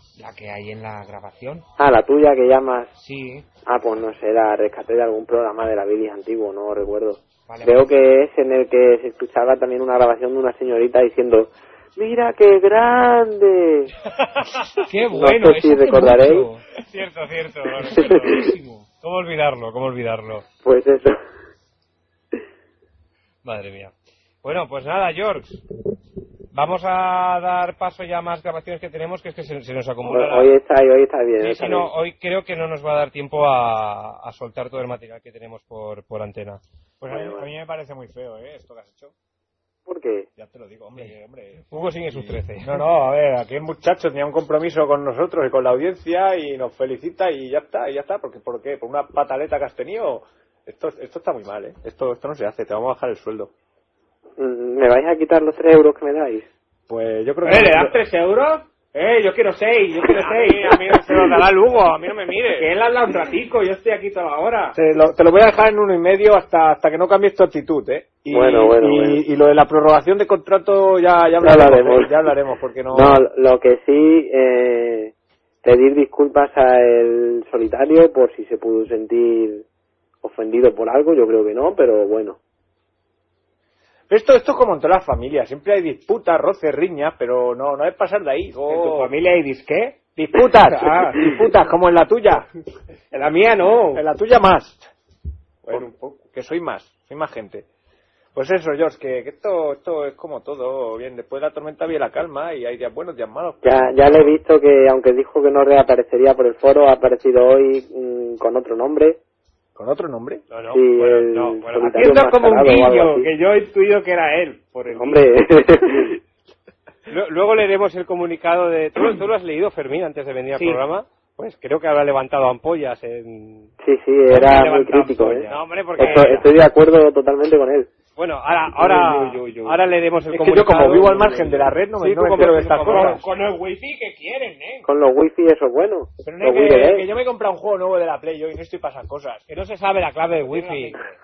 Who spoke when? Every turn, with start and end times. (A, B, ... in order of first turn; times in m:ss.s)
0:00.2-0:01.6 A
0:01.8-0:02.9 B
0:03.0-0:03.4 A
0:03.6-0:13.9 B
0:07.5-0:07.8 A
0:14.8-0:16.6 A
0:15.1-0:16.5 B
0:16.9-0:18.3 C
0:17.9-0:18.5 B
0:18.4-0:18.8 A
0:19.0-0:20.4 C
0:20.6-0:21.2 B
0:23.4-0:23.9 C
0:24.4-0:25.6 C
0:26.5-0:30.5 C
0:30.0-0:31.9 B
0:31.4-0:36.6 C
0:37.0-0:39.1 D
0:37.1-0:37.5 B
0:39.9-0:40.3 B
0:40.4-0:53.5 D
0:41.7-0:42.8 C
0:54.4-0:56.5 B
0:56.9-0:58.0 D
0:57.4-1:00.8 A
1:00.1-1:02.7 C
1:02.6-1:04.7 A
1:04.7-1:13.2 D
1:08.3-1:09.2 B
1:11.4-1:12.2 B
1:12.9-1:15.1 B
1:15.6-1:19.6 B
1:20.2-1:22.4 B
1:24.1-1:29.1 D
1:28.7-1:31.4 A
1:30.2-1:32.5 D
1:33.1-1:34.0 A
1:33.9-1:34.9 D
1:35.7-1:36.1 A
1:35.7-1:37.7 D
1:38.3-1:44.4 D
1:43.6-1:49.2 B
1:49.7-1:50.4 D
1:50.5-1:52.0 C
1:50.7-1:53.3 B
1:51.9-1:55.2 A
1:54.9-1:56.1 B
1:57.1-2:03.7 C
2:00.5-2:00.8 A
2:03.8-2:07.9 B
2:05.4-2:06.4 C
2:08.2-2:11.3 C
2:08.8-2:09.7 A
2:10.3-2:13.2 D
2:12.0-2:13.2 C
2:12.7-2:14.8 A
2:14.8-2:17.1 B
2:16.2-2:19.4 D
2:19.5-2:21.0 C
2:20.6-2:21.0 A